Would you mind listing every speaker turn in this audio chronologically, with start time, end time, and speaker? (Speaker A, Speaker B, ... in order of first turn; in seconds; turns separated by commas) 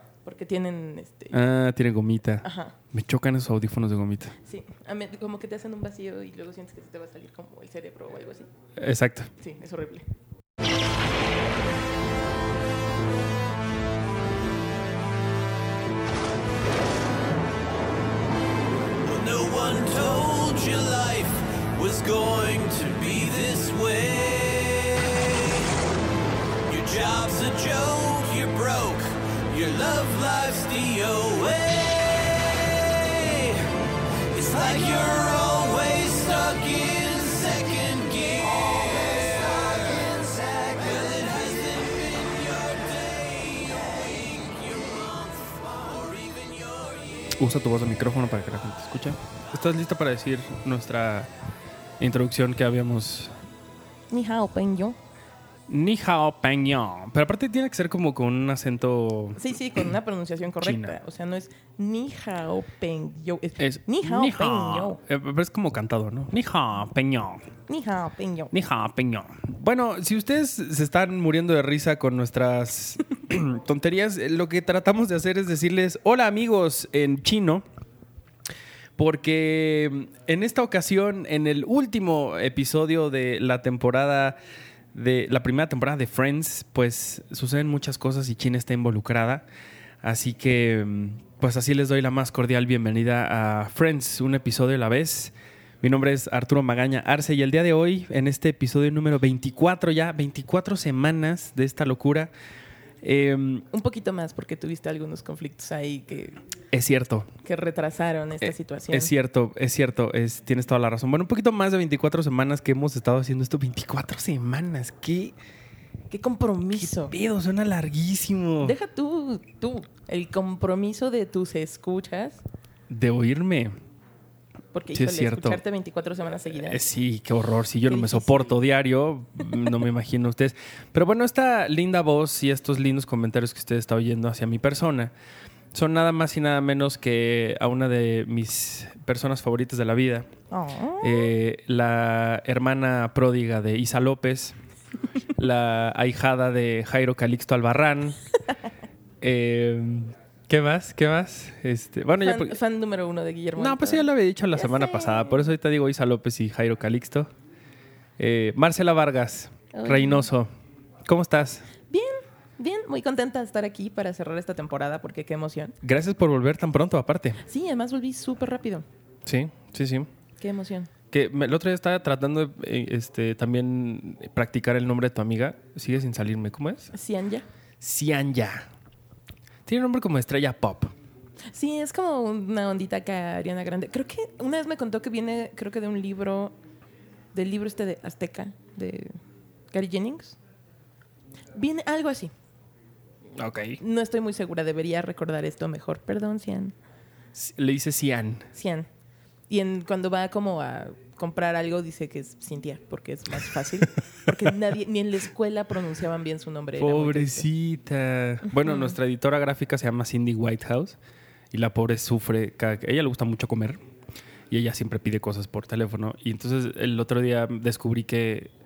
Speaker A: 0.2-1.4, Speaker B: 1.3-4.3, Speaker A: 2.4-2.8, Speaker A: 4.4-8.5, Speaker B: 8.8-9.3, Speaker A: 9.4-10.1, Speaker C: 19.0-25.6, Speaker C: 26.7-33.7, Speaker C: 34.3-47.3, Speaker B: 47.4-51.3, Speaker B: 52.0-53.4, Speaker A: 54.1-55.0, Speaker B: 55.7-59.8, Speaker A: 59.4-65.0, Speaker B: 60.6-60.9, Speaker B: 63.6-67.5, Speaker A: 67.7-68.5, Speaker B: 68.5-77.6, Speaker B: 79.0-84.4, Speaker B: 84.9-89.4, Speaker B: 90.0-102.3, Speaker B: 103.0-103.7, Speaker A: 103.7-106.4, Speaker B: 106.7-107.3, Speaker A: 107.4-109.1, Speaker B: 108.9-115.3, Speaker A: 116.1-117.1, Speaker B: 116.8-118.8, Speaker A: 118.6-122.4, Speaker B: 122.9-123.7, Speaker A: 124.7-126.8, Speaker B: 124.9-125.6, Speaker B: 126.6-135.1, Speaker A: 127.8-128.5, Speaker B: 135.7-140.3, Speaker A: 140.5-141.3, Speaker B: 141.0-144.6, Speaker B: 145.3-148.2, Speaker B: 149.2-152.6, Speaker A: 152.2-155.5, Speaker B: 153.6-157.3, Speaker B: 158.2-160.5, Speaker A: 159.7-160.3, Speaker B: 161.1-161.7, Speaker A: 161.9-165.8, Speaker B: 165.8-167.4, Speaker A: 167.4-168.8, Speaker B: 169.2-170.1, Speaker A: 170.4-170.9, Speaker B: 171.1-176.9, Speaker A: 176.9-177.4, Speaker B: 177.8-178.7, Speaker B: 179.7-180.9, Speaker A: 181.5-186.5, Speaker A: 187.3-189.2, Speaker A: 189.7-190.4, Speaker A: 191.6-192.3, Speaker B: 193.4-193.8, Speaker A: 193.8-196.7, Speaker B: 197.3-198.5, Speaker A: 198.5-198.9, Speaker A: 199.5-207.5, Speaker B: 206.8-211.0, Speaker A: 208.5-208.9, Speaker B: 211.5-213.8, Speaker B: 214.5-218.5